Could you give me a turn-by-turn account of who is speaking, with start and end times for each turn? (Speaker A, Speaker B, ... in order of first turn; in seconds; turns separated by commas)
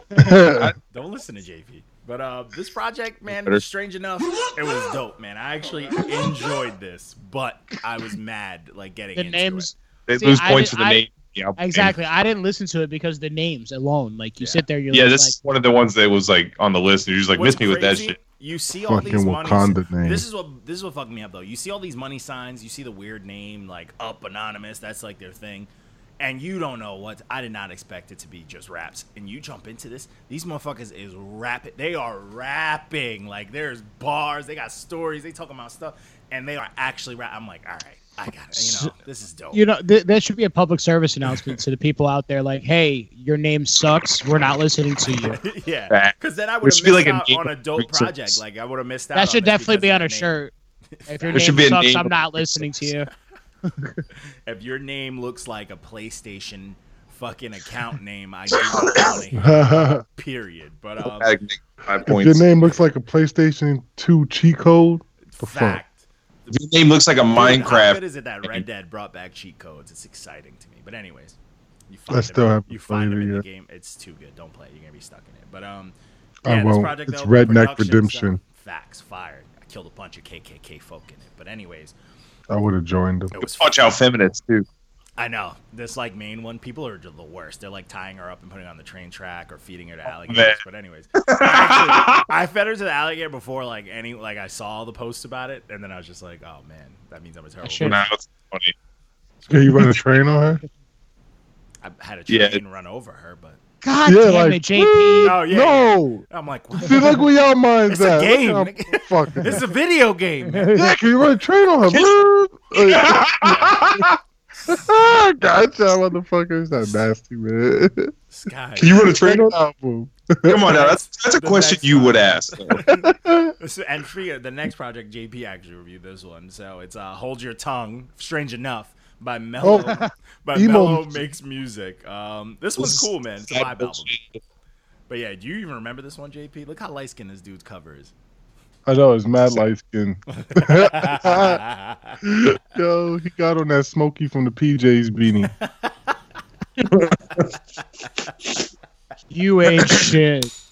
Speaker A: 0.1-0.7, Speaker B: 0.5-0.8, Speaker C: 0.9-9.7, Speaker B: 3.3-3.6, Speaker D: 9.2-11.0, Speaker B: 10.1-12.0, Speaker D: 11.6-15.4, Speaker C: 14.4-14.7, Speaker B: 14.9-18.2, Speaker C: 17.3-39.6, Speaker A: 18.9-20.2, Speaker D: 38.5-38.9, Speaker D: 39.5-45.4, Speaker C: 45.2-50.4, Speaker B: 45.9-48.4, Speaker D: 49.1-50.5, Speaker C: 50.9-51.6, Speaker D: 51.1-53.1, Speaker B: 51.3-52.9, Speaker D: 53.7-54.0, Speaker C: 54.5-61.3, Speaker B: 58.5-59.2, Speaker A: 59.3-60.0, Speaker B: 61.0-62.7, Speaker A: 62.1-65.8, Speaker C: 65.3-66.0, Speaker B: 66.5-68.6, Speaker C: 67.3-71.4, Speaker C: 71.9-82.0, Speaker A: 72.1-73.4, Speaker A: 76.5-78.4, Speaker A: 82.5-83.3, Speaker C: 83.3-83.9, Speaker B: 83.4-84.7, Speaker C: 85.2-98.1, Speaker B: 90.2-90.6, Speaker B: 91.2-92.3, Speaker D: 97.6-98.0, Speaker B: 97.8-98.7, Speaker A: 99.5-100.6, Speaker C: 101.8-103.6, Speaker B: 102.3-102.6, Speaker D: 103.8-105.4, Speaker A: 104.1-106.2, Speaker C: 105.2-107.3, Speaker A: 106.8-109.7, Speaker C: 107.9-110.7, Speaker D: 110.5-111.0, Speaker A: 110.7-118.1, Speaker B: 112.7-114.0, Speaker C: 113.4-113.9, Speaker C: 118.3-119.1, Speaker B: 118.8-119.6, Speaker A: 119.2-120.6, Speaker B: 120.5-122.8, Speaker C: 120.6-134.1, Speaker A: 122.9-123.5, Speaker A: 129.6-129.9, Speaker D: 129.7-130.1, Speaker A: 130.5-131.3, Speaker B: 132.8-134.4, Speaker C: 135.1-138.1, Speaker A: 138.9-141.6, Speaker C: 140.4-142.2, Speaker A: 142.2-145.5, Speaker C: 145.4-146.1, Speaker B: 146.8-147.6, Speaker C: 147.8-148.3, Speaker D: 149.3-150.5, Speaker B: 149.8-150.1